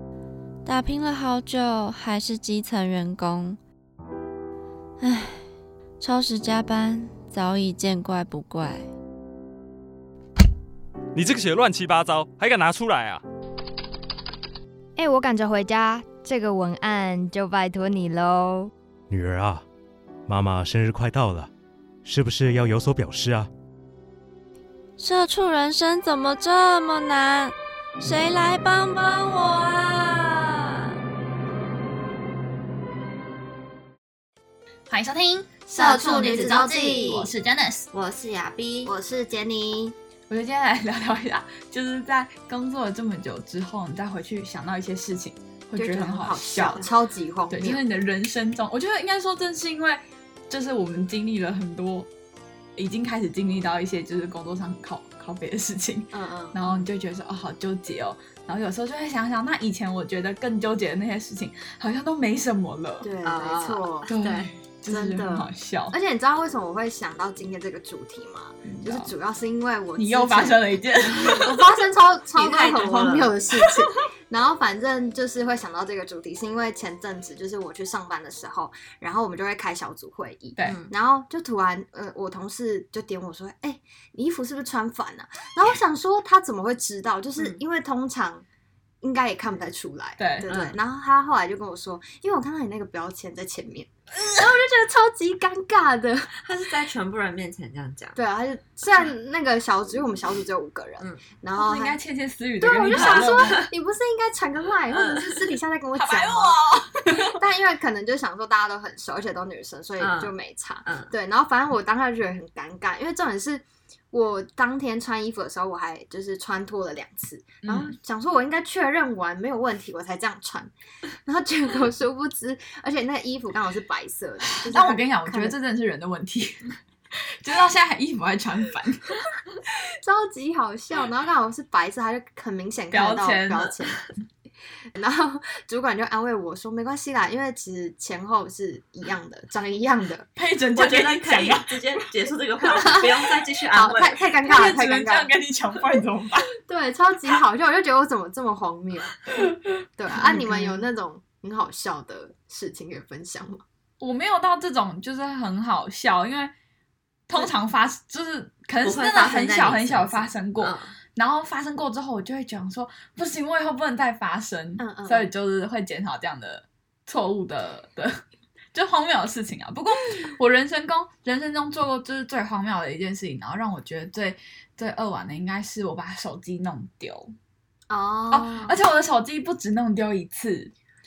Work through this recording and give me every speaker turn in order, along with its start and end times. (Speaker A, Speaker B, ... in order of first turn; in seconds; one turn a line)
Speaker A: 0.6-3.6
Speaker A: 5.0-5.4
Speaker A: 6.0-8.9
Speaker B: 11.1-13.2
Speaker C: 15.0-18.7
Speaker D: 19.1-19.6
Speaker D: 20.3-21.5
Speaker D: 22.0-23.5
Speaker A: 25.0-30.6
Speaker E: 34.9-37.9
Speaker F: 35.7-37.3
Speaker G: 37.9-38.9
Speaker F: 38.8-39.9
Speaker E: 40.3-46.9
Speaker F: 45.8-47.8
Speaker E: 47.5-52.1
Speaker E: 52.8-63.1
Speaker F: 56.1-56.8
Speaker F: 63.0-64.1
Speaker G: 63.2-64.4
Speaker E: 64.1-65.9
Speaker F: 64.9-88.5
Speaker E: 68.7-69.1
Speaker E: 70.0-71.6
Speaker G: 71.2-71.5
Speaker G: 72.3-73.3
Speaker E: 80.6-80.8
Speaker G: 80.6-80.9
Speaker F: 89.0-96.4
Speaker E: 90.2-90.5
Speaker G: 90.5-90.7
Speaker G: 96.4-98.2
Speaker F: 98.2-102.0
Speaker E: 101.5-103.7
Speaker F: 102.6-120.7
Speaker G: 102.9-103.7
Speaker G: 104.9-105.6
Speaker E: 106.0-107.4
Speaker G: 110.0-110.3
Speaker G: 110.8-111.1
Speaker E: 117.6-117.9
Speaker F: 121.2-125.5
Speaker E: 124.6-129.1
Speaker F: 130.0-134.0
Speaker E: 132.9-133.7
Speaker F: 134.9-140.3
Speaker E: 140.4-142.0
Speaker G: 140.8-144.2
Speaker F: 143.7-145.3
Speaker E: 144.4-146.5
Speaker F: 146.6-149.2
Speaker E: 149.7-150.9
Speaker F: 150.0-153.6
Speaker E: 154.0-156.5
Speaker E: 157.3-168.2
Speaker G: 158.8-160.9
Speaker F: 164.8-165.3
Speaker E: 168.7-177.3
Speaker F: 177.9-178.8
Speaker E: 178.3-180.7